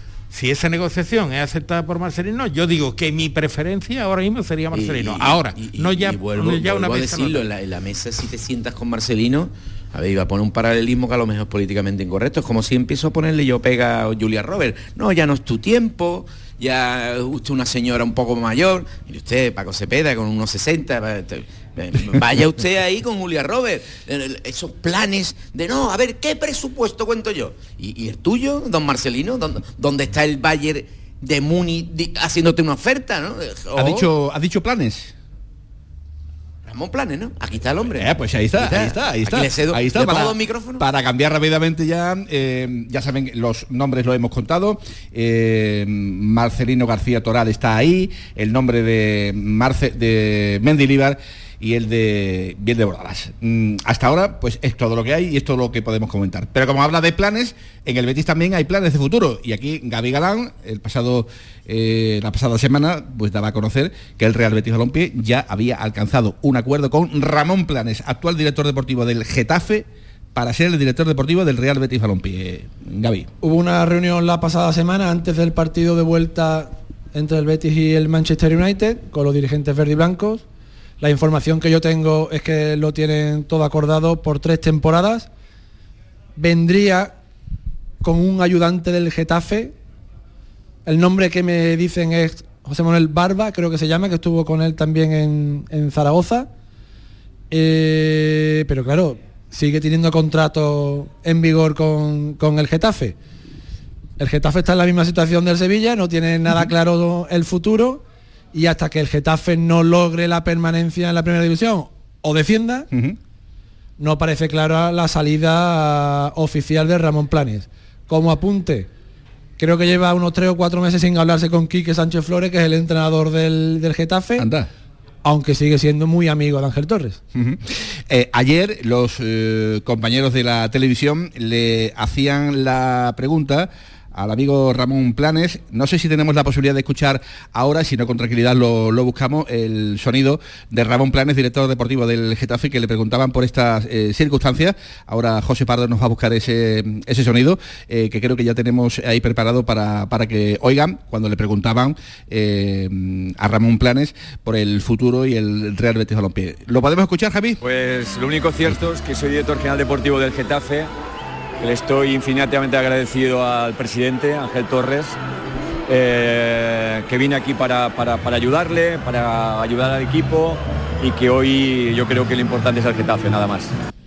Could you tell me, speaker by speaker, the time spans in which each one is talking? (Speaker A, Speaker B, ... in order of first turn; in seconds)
Speaker A: 0.3-7.4
Speaker B: 4.7-34.1, 36.6-40.8
Speaker C: 33.7-35.1, 38.0-73.3, 112.9-113.2, 124.4-124.7, 127.3-157.6
Speaker D: 73.4-80.4, 81.0-85.3, 86.4-87.1, 88.0-89.7, 90.8-96.5, 97.5-103.2, 104.2-112.9, 114.0-118.9, 119.6-124.5, 125.2-127.2
Speaker E: 157.6-160.9, 161.6-165.2, 165.9-173.7